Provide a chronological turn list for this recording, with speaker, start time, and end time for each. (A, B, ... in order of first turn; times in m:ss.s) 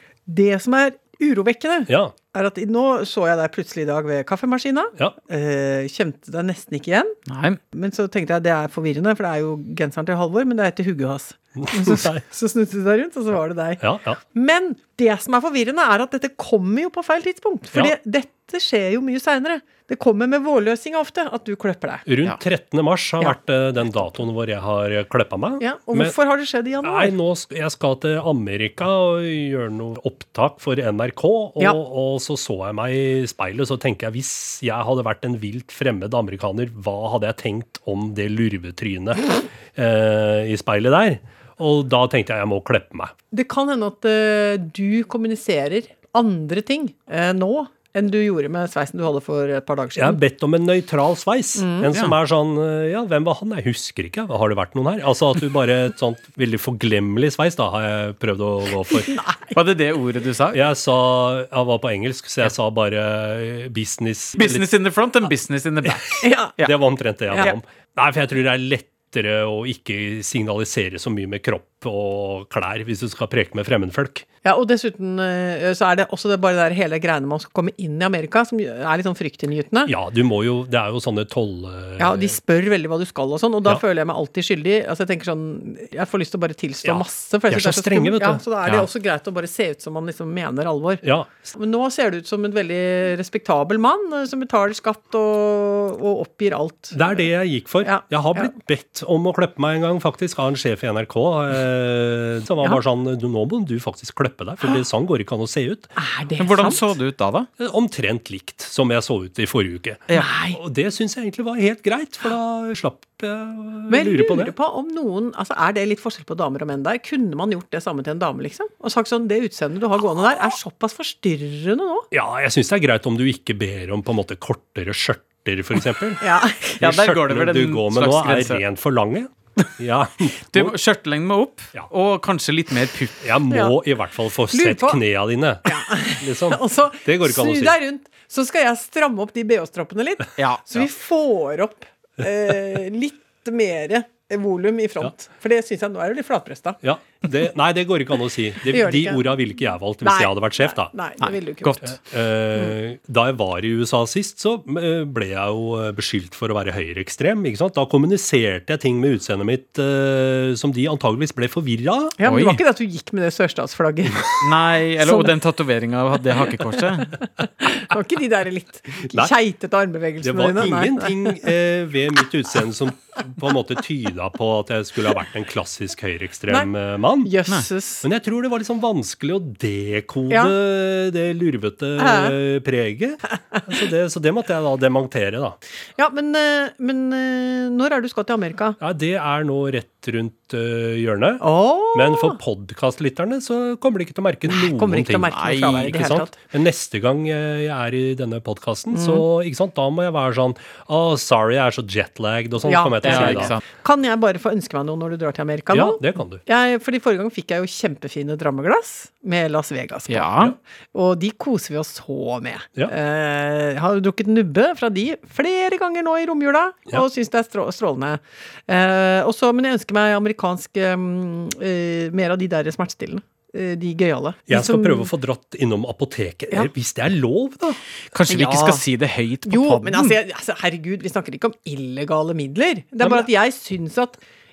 0:00.3-0:07.2 A
0:01.9-0:02.1 B
0:07.3-0:07.6 C
0:07.7-0:22.0 A
0:11.6-0:12.2 B
0:13.8-0:14.2 B
0:22.0-0:26.1 B
0:25.6-0:27.1 A
0:26.8-0:43.1 B
0:43.3-0:50.2 A
0:50.0-0:59.2 B
0:51.6-0:51.9 A
0:59.0-0:59.5 A
0:59.5-1:00.6 C
1:00.5-1:04.7 B
1:04.4-1:06.7 C
1:06.2-1:06.6 A
1:06.6-1:14.2 B
1:14.4-1:19.9 A
1:19.9-1:22.4 B
1:22.0-1:37.1 A
1:26.8-1:28.8 B
1:31.0-1:31.3 B
1:36.9-1:45.9 B
1:37.8-1:38.5 A
1:46.0-1:46.9 A
1:46.4-1:47.5 C
1:47.6-1:54.5 B
1:50.1-1:50.6 A
1:53.9-2:02.1 A
2:02.1-2:06.2 B
2:06.2-2:06.8 A
2:06.8-2:08.6 C
2:06.8-2:10.7 B
2:10.5-2:13.2 C
2:13.2-2:17.8 B
2:13.5-2:13.7 A
2:14.5-2:15.0 A
2:15.6-2:26.8 A
2:20.4-2:20.6 C
2:26.8-2:30.9 B
2:28.7-2:29.2 A
2:30.0-2:31.9 A
2:31.2-2:31.9 C
2:31.8-2:42.1 B
2:42.2-2:44.5 A
2:42.2-2:42.6 C
2:44.4-2:47.2 C
2:45.0-2:45.3 A
2:47.6-2:51.4 A
2:49.0-2:49.3 B
2:50.2-2:57.3 B
2:57.2-2:58.0 A
2:58.0-3:05.6 B
3:02.0-3:02.3 A
3:06.0-3:08.8 A
3:08.8-3:23.5 B
3:11.4-3:12.4 A
3:14.5-3:16.4 A
3:15.3-3:15.9 C
3:18.9-3:19.2 A
3:22.6-3:45.1 A
3:23.0-3:23.6 C
3:25.7-3:26.4 B
3:30.1-3:30.5 C
3:44.5-3:47.8 B
3:48.1-3:50.1 C
3:48.3-3:48.8 A
3:49.4-3:54.2 A